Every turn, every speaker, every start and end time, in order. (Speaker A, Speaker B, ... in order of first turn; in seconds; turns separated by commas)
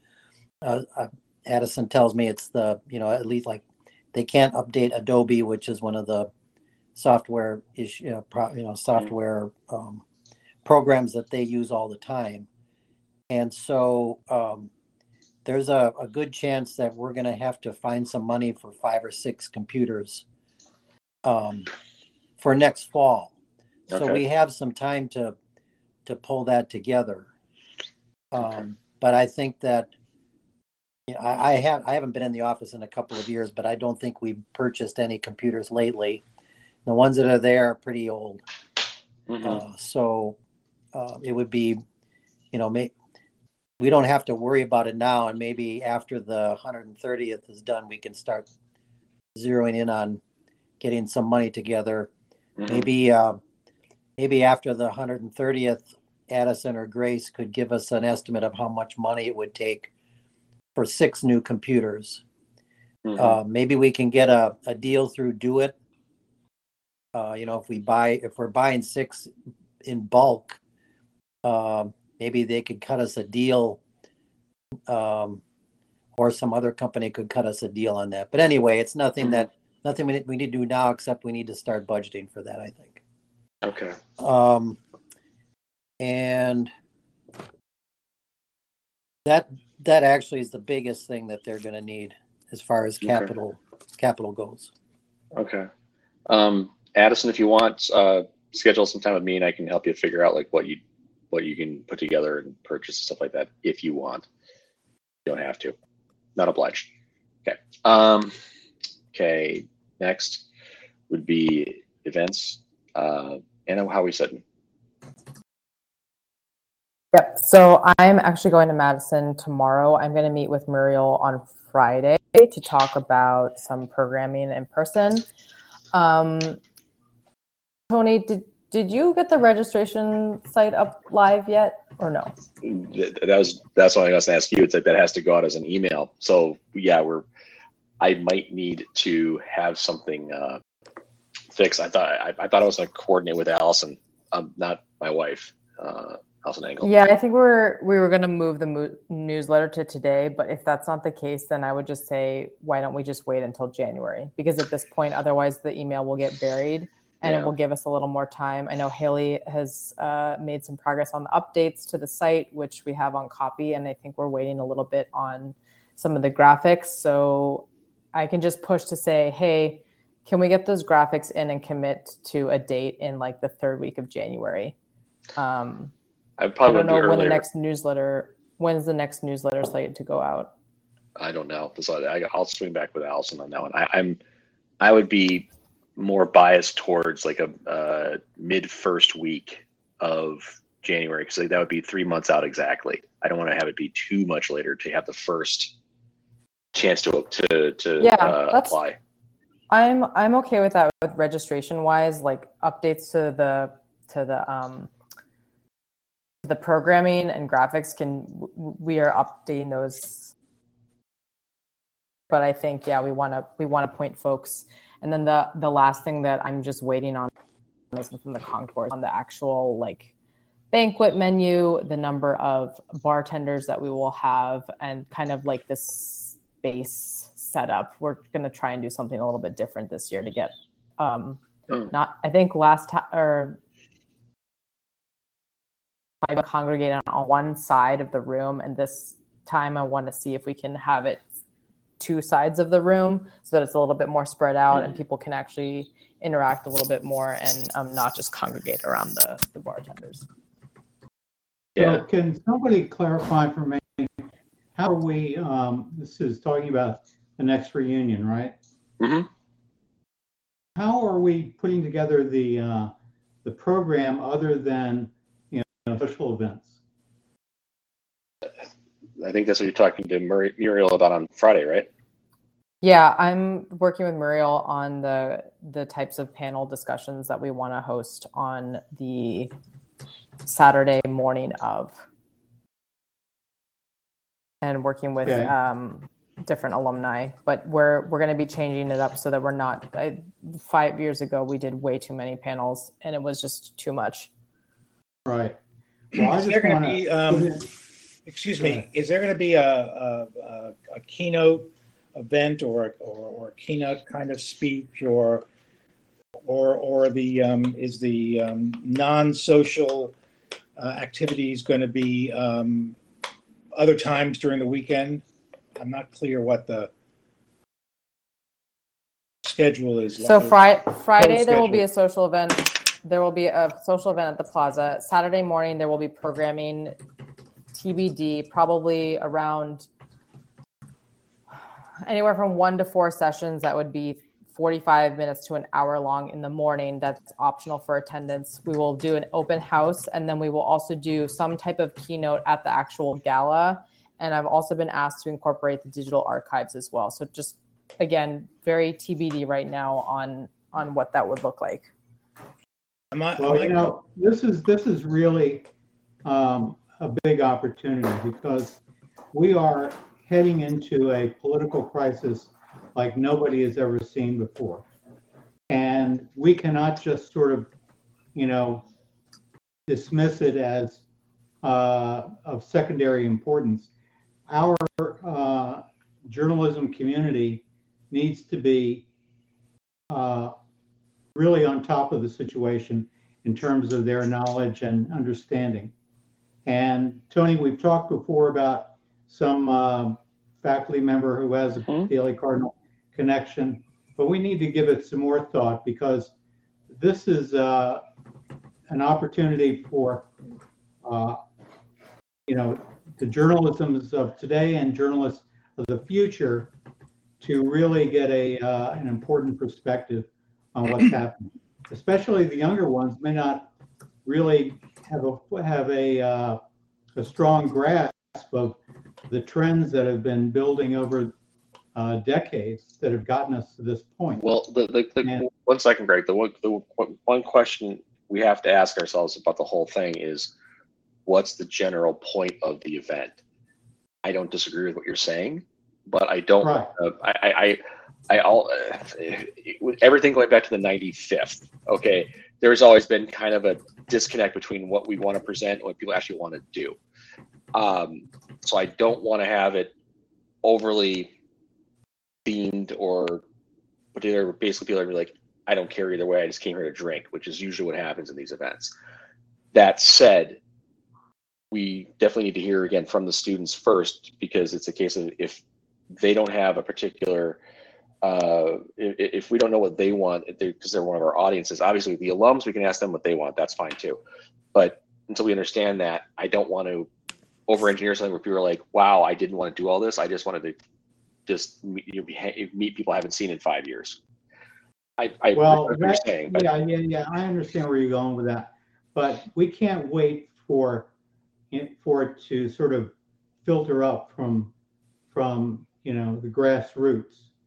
Speaker A: 0.6-6.3, Speaker A: 7.0-10.0, Speaker A: 10.6-12.5, Speaker A: 13.3-14.7, Speaker A: 15.4-20.2, Speaker A: 21.2-21.7, Speaker A: 22.4-23.3, Speaker B: 23.9-24.2, Speaker A: 23.9-25.4, Speaker A: 26.0-27.3, Speaker A: 28.3-29.9, Speaker A: 31.1-36.2, Speaker A: 36.8-38.4, Speaker B: 39.3-39.6, Speaker A: 39.4-40.4, Speaker A: 40.9-41.8, Speaker A: 42.5-42.9, Speaker A: 43.8-48.5, Speaker A: 49.3-50.2, Speaker A: 50.8-52.1, Speaker B: 52.6-52.9, Speaker A: 52.7-53.4, Speaker A: 54.2-59.9, Speaker A: 60.8-62.2, Speaker B: 63.0-63.4, Speaker A: 63.2-65.8, Speaker A: 67.2-69.3, Speaker A: 69.8-70.6, Speaker A: 71.4-73.8, Speaker A: 74.9-75.4, Speaker A: 76.1-83.0, Speaker B: 83.6-84.0, Speaker A: 84.2-84.8, Speaker A: 86.0-86.7, Speaker A: 89.2-94.7, Speaker B: 93.0-93.3, Speaker B: 95.3-95.7, Speaker B: 96.3-100.8, Speaker B: 101.3-104.2, Speaker B: 105.2-105.8, Speaker B: 106.3-106.9, Speaker B: 107.5-108.3, Speaker B: 109.1-110.4, Speaker B: 111.1-114.4, Speaker C: 117.1-125.2, Speaker C: 125.9-126.6, Speaker C: 127.9-132.3, Speaker B: 132.6-137.2, Speaker B: 138.0-140.6, Speaker B: 141.5-146.9, Speaker C: 146.8-174.8, Speaker B: 157.2-157.5, Speaker C: 175.4-175.9, Speaker B: 176.4-177.4, Speaker C: 176.7-180.5, Speaker B: 181.2-184.2, Speaker B: 184.8-195.7, Speaker B: 196.7-199.0, Speaker C: 198.0-198.8, Speaker C: 199.7-204.9, Speaker C: 206.4-210.3, Speaker C: 212.3-217.3, Speaker C: 217.9-220.1, Speaker C: 220.7-231.4, Speaker C: 231.9-233.6, Speaker C: 236.2-241.2, Speaker C: 242.0-250.2, Speaker B: 251.8-252.0, Speaker D: 251.8-254.1, Speaker D: 254.8-258.5, Speaker B: 259.0-259.3, Speaker D: 260.8-262.9, Speaker D: 263.4-266.8, Speaker B: 269.2-271.9, Speaker C: 272.8-279.5, Speaker C: 280.4-282.0, Speaker C: 284.6-294.3, Speaker D: 285.2-285.5, Speaker D: 295.2-295.6, Speaker D: 296.1-297.6, Speaker E: 296.2-297.7, Speaker E: 298.2-305.4, Speaker D: 298.6-298.9, Speaker E: 306.4-310.1, Speaker E: 310.8-313.0, Speaker E: 313.8-315.2, Speaker E: 315.8-316.9, Speaker E: 319.4-321.8, Speaker C: 320.2-327.0, Speaker C: 327.7-329.9, Speaker C: 332.0-351.9, Speaker E: 353.1-353.9, Speaker D: 353.4-355.7, Speaker D: 356.2-358.8, Speaker D: 359.3-364.9, Speaker D: 365.7-367.7, Speaker D: 368.3-368.9, Speaker D: 369.9-371.0, Speaker D: 371.6-373.9, Speaker D: 374.5-379.1, Speaker D: 380.1-380.6, Speaker D: 381.3-385.9, Speaker D: 386.7-396.3, Speaker D: 396.9-398.0, Speaker D: 398.9-400.3, Speaker D: 401.0-401.4, Speaker D: 402.5-406.7, Speaker D: 407.4-413.7, Speaker D: 414.2-416.6, Speaker D: 417.1-418.8, Speaker D: 419.3-421.3, Speaker D: 421.9-424.4, Speaker B: 424.4-430.5, Speaker B: 431.2-433.4, Speaker B: 434.2-447.0, Speaker D: 436.6-436.9, Speaker B: 447.7-449.9, Speaker B: 450.6-451.3, Speaker B: 452.4-453.4, Speaker B: 454.1-458.9, Speaker B: 459.7-460.6, Speaker B: 461.7-465.6, Speaker B: 466.2-467.6, Speaker B: 468.2-474.2, Speaker B: 474.7-477.1, Speaker B: 477.7-480.8, Speaker B: 481.5-484.2, Speaker B: 485.2-486.7, Speaker D: 485.5-491.1, Speaker D: 491.7-494.7, Speaker D: 495.3-497.5